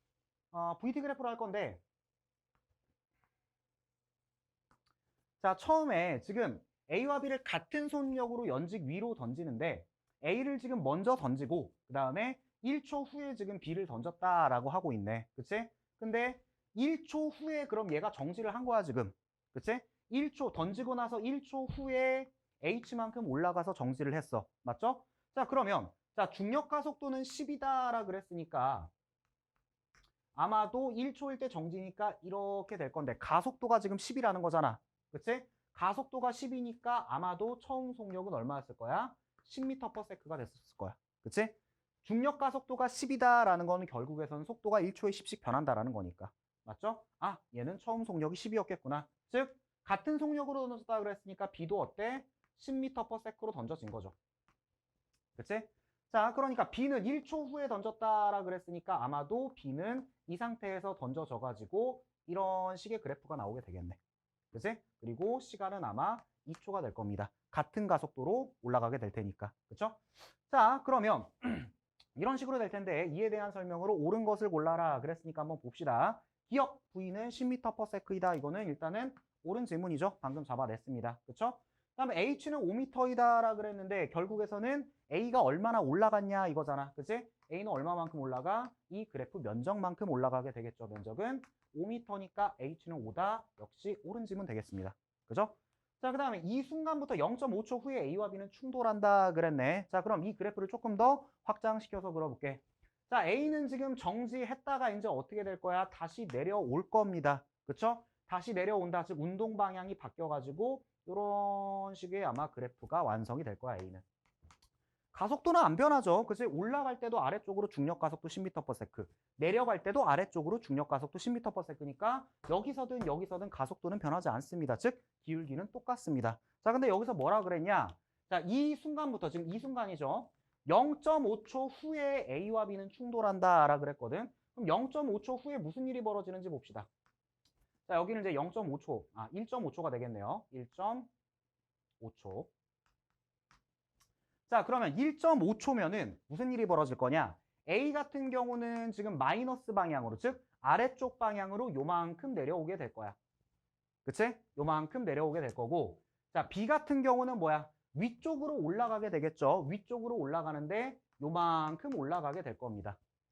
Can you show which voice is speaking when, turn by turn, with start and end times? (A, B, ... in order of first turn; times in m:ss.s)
0:00.5-0:01.8 A
0:05.4-0:28.9 A
0:30.3-0:54.1 A
0:55.4-1:04.0 A
1:04.5-1:54.0 A
1:55.1-2:16.9 A
2:17.9-2:21.1 A
2:22.0-2:22.5 A
2:24.5-2:33.2 A
2:34.0-2:43.0 A